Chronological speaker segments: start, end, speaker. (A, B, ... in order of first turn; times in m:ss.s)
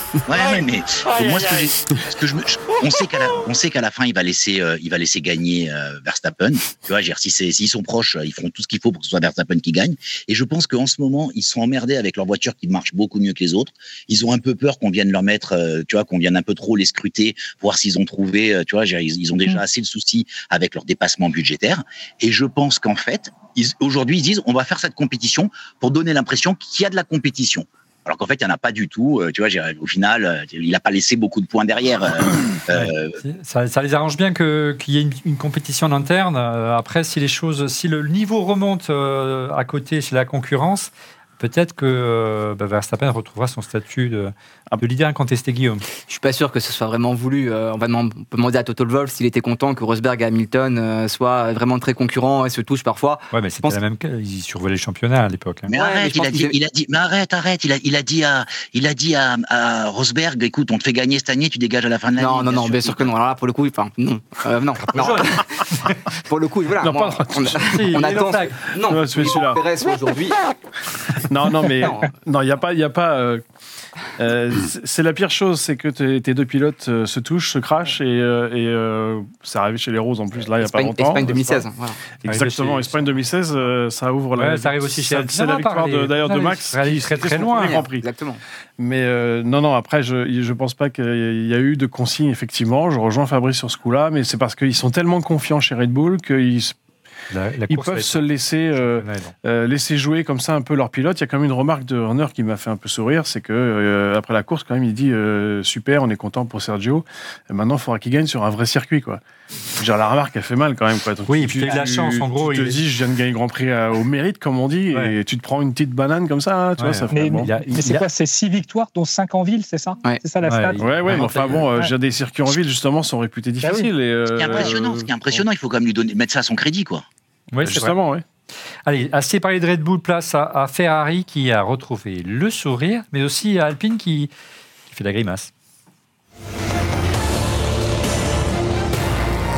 0:00.3-0:33.2 A
0:32.7-0:45.8 B
0:46.0-0:53.8 C
0:53.3-0:55.7 B
0:55.7-1:03.1 A
0:55.7-0:56.6 C
1:02.2-1:10.4 C
1:04.9-1:05.8 B
1:06.8-1:07.8 D
1:07.5-1:08.6 B
1:08.8-1:09.6 D
1:11.1-1:13.4 D
1:11.8-1:12.1 C
1:14.2-1:21.7 D
1:20.6-1:22.0 C
1:22.2-1:28.1 D
1:22.3-1:22.9 B
1:24.4-1:27.8 B
1:27.5-1:28.4 C
1:28.8-1:36.8 D
1:37.3-1:39.4 B
1:37.7-1:49.2 D
1:49.8-1:57.5 D
1:51.3-1:52.8 B
1:56.8-1:58.0 B
1:57.1-2:01.9 E
2:00.4-2:01.6 B
2:00.8-2:05.4 D
2:01.1-2:01.6 C
2:03.6-2:03.9 E
2:04.4-2:07.0 A
2:07.5-2:08.0 B
2:07.6-2:08.2 D
2:08.9-2:14.3 B
2:14.9-2:15.5 B